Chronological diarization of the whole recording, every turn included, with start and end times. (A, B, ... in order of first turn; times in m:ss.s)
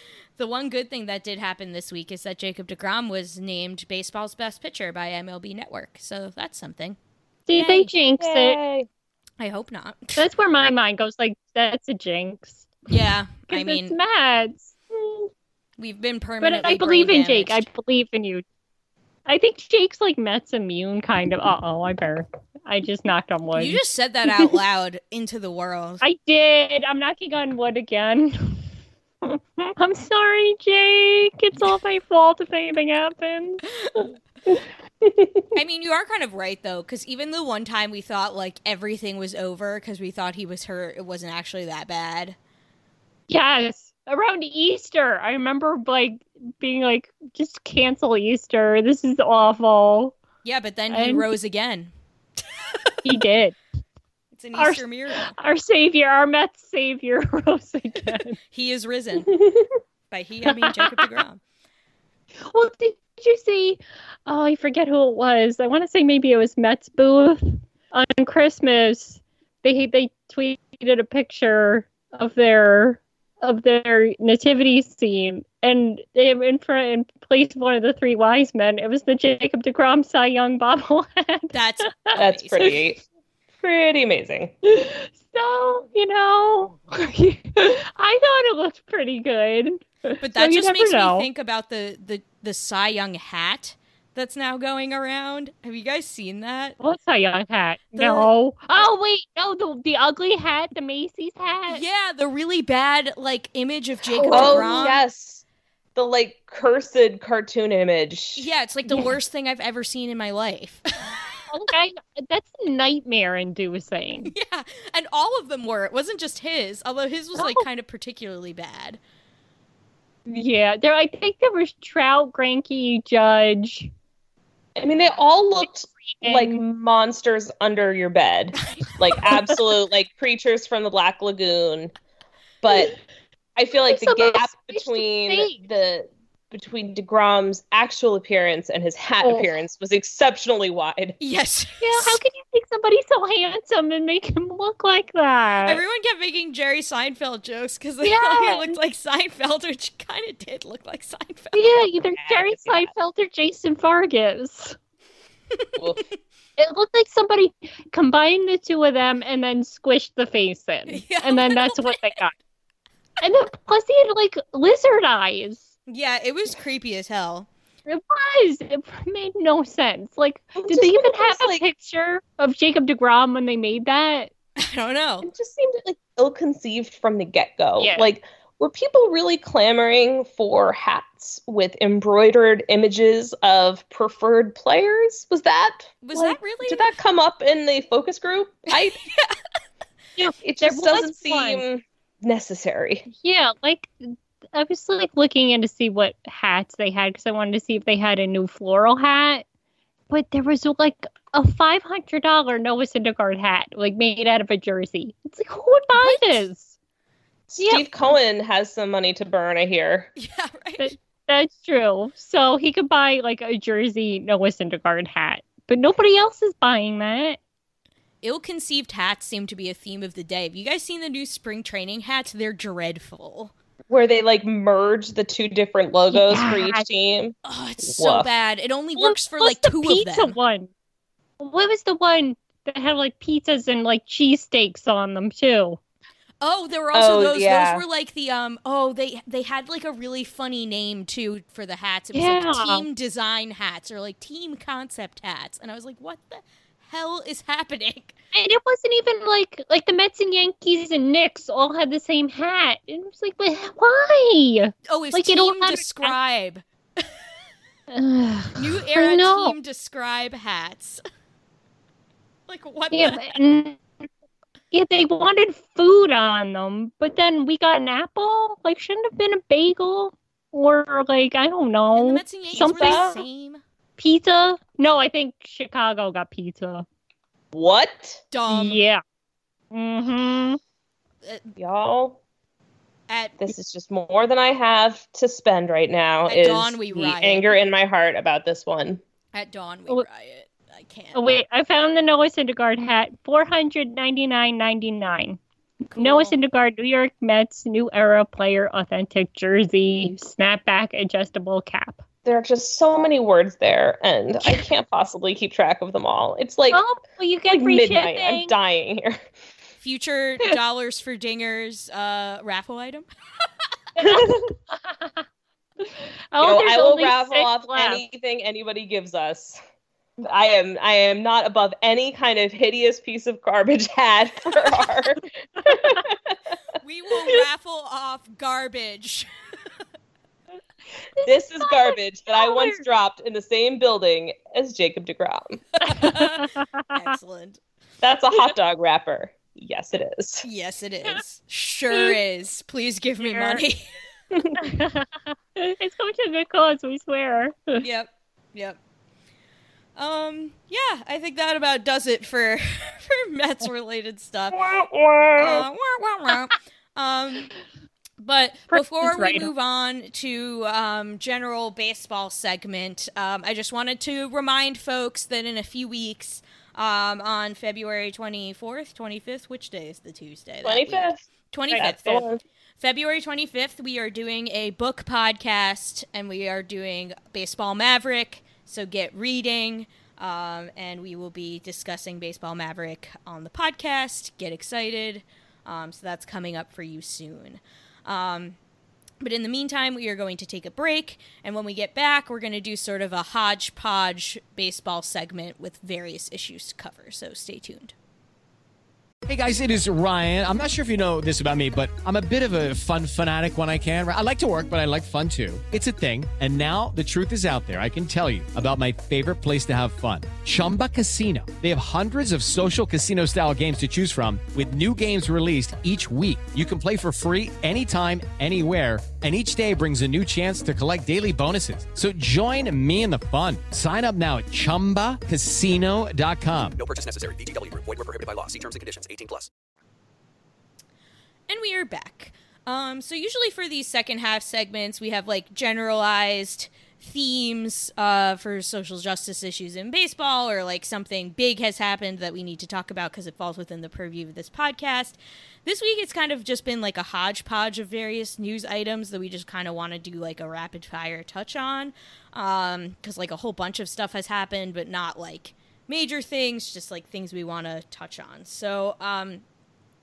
0:00.4-0:07.0 A
0:07.5-0:08.6 B
0:07.6-0:07.9 A
0:08.2-0:08.9 C
0:09.4-0:10.3 A
0:10.2-0:12.7 B
0:12.9-0:14.0 A
0:13.5-0:15.3 B
0:15.8-0:17.7 A
0:16.4-0:18.4 B
0:19.3-0:23.8 B
0:23.5-0:26.0 A
0:26.0-0:28.7 B
0:29.2-0:33.6 B
0:33.8-0:34.0 A
0:35.5-0:42.4 A
0:43.3-0:50.2 B
0:50.4-0:52.9 A
0:50.9-0:51.3 B
0:53.0-0:53.6 B
0:54.3-0:55.3 A
0:54.6-0:54.8 B
0:55.4-0:58.4 B
0:58.1-0:59.3 A
0:59.3-0:59.6 B
1:00.1-1:01.4 A
1:00.5-1:01.0 B
1:02.5-1:22.2 B
1:21.5-1:22.7 A
1:22.2-1:23.0 C
1:23.6-1:24.5 C
1:24.6-1:31.3 B
1:30.2-1:36.8 A
1:36.8-1:41.8 B
1:38.0-1:38.3 A
1:41.7-1:45.0 A
1:44.2-1:44.9 B
1:44.3-1:45.4 C
1:46.0-1:48.5 C
1:48.4-1:51.4 A
1:51.5-1:54.3 B
1:54.3-1:59.0 A
1:57.4-1:57.7 B
2:00.3-2:03.9 B
2:04.8-2:11.9 C
2:06.1-2:06.7 B
2:12.6-2:13.0 C
2:13.6-2:21.2 C
2:13.9-2:15.6 B
2:19.2-2:19.5 B
2:21.2-2:22.2 A
2:21.8-2:25.8 B
2:25.6-2:31.8 A
2:28.0-2:28.8 B
2:31.5-2:34.8 B
2:32.2-2:32.9 C
2:35.8-2:36.0 C
2:36.6-2:42.3 B
2:40.9-2:42.2 A
2:43.2-2:45.7 B
2:45.9-2:47.5 A
2:47.9-2:54.3 B
2:50.6-2:51.6 C
2:54.6-2:55.3 A
2:55.2-3:09.0 C
2:57.8-2:58.1 B
3:06.0-3:06.9 A
3:08.7-3:09.4 A
3:10.2-3:11.6 B
3:10.4-3:13.0 C
3:13.1-3:19.4 B
3:20.1-3:26.7 B
3:26.0-3:26.5 A
3:27.5-3:30.1 C
3:27.6-3:27.8 B
3:30.2-3:30.9 A
3:30.8-3:37.4 B
3:38.2-3:43.5 A
3:43.9-3:48.3 C
3:46.1-3:46.8 B
3:47.4-3:50.4 A
3:49.0-3:50.7 B
3:51.4-3:55.8 B
3:56.4-4:08.2 A
3:56.9-3:57.8 C
4:02.1-4:02.9 B
4:08.3-4:16.2 B
4:14.9-4:17.2 A
4:17.9-4:19.5 B
4:18.6-4:21.0 A
4:22.5-4:23.4 A
4:22.9-4:23.8 B
4:24.7-4:33.2 B
4:31.9-4:33.6 A
4:32.6-4:33.1 C
4:34.0-4:36.9 B
4:37.5-4:38.2 C
4:38.3-4:38.8 A
4:38.5-4:39.0 B
4:39.7-4:40.6 B
4:41.2-4:41.5 A
4:41.6-4:42.2 C
4:43.1-4:43.4 A
4:43.4-4:49.0 C
4:46.3-4:47.6 A
4:49.3-4:51.2 A
4:51.1-4:55.4 B
4:55.9-4:56.4 A
4:56.0-5:02.0 B
5:02.2-5:06.8 C
5:06.7-5:08.5 B
5:07.5-5:09.2 C
5:09.8-5:13.1 A
5:14.0-5:15.2 B
5:15.8-5:18.0 B
5:16.4-5:19.6 C
5:20.2-5:26.1 C
5:25.6-5:26.0 B
5:26.8-5:29.3 A
5:31.2-5:32.8 B
5:31.2-5:35.6 C
5:35.8-5:37.6 A
5:35.8-5:36.9 B
5:38.0-5:40.4 C
5:40.4-5:43.9 A
5:43.2-5:43.6 B
5:44.3-5:47.8 B
5:47.8-5:48.8 A
5:50.0-5:54.6 A
5:54.5-5:55.7 C
5:55.4-5:57.5 A
5:58.2-6:12.3 A
5:58.7-5:59.5 B
6:10.6-6:11.2 C
6:11.7-6:12.4 C
6:12.8-6:28.6 A
6:29.2-6:37.9 A
6:39.3-7:06.8 D
7:06.8-7:09.5 E
7:11.5-7:39.4 A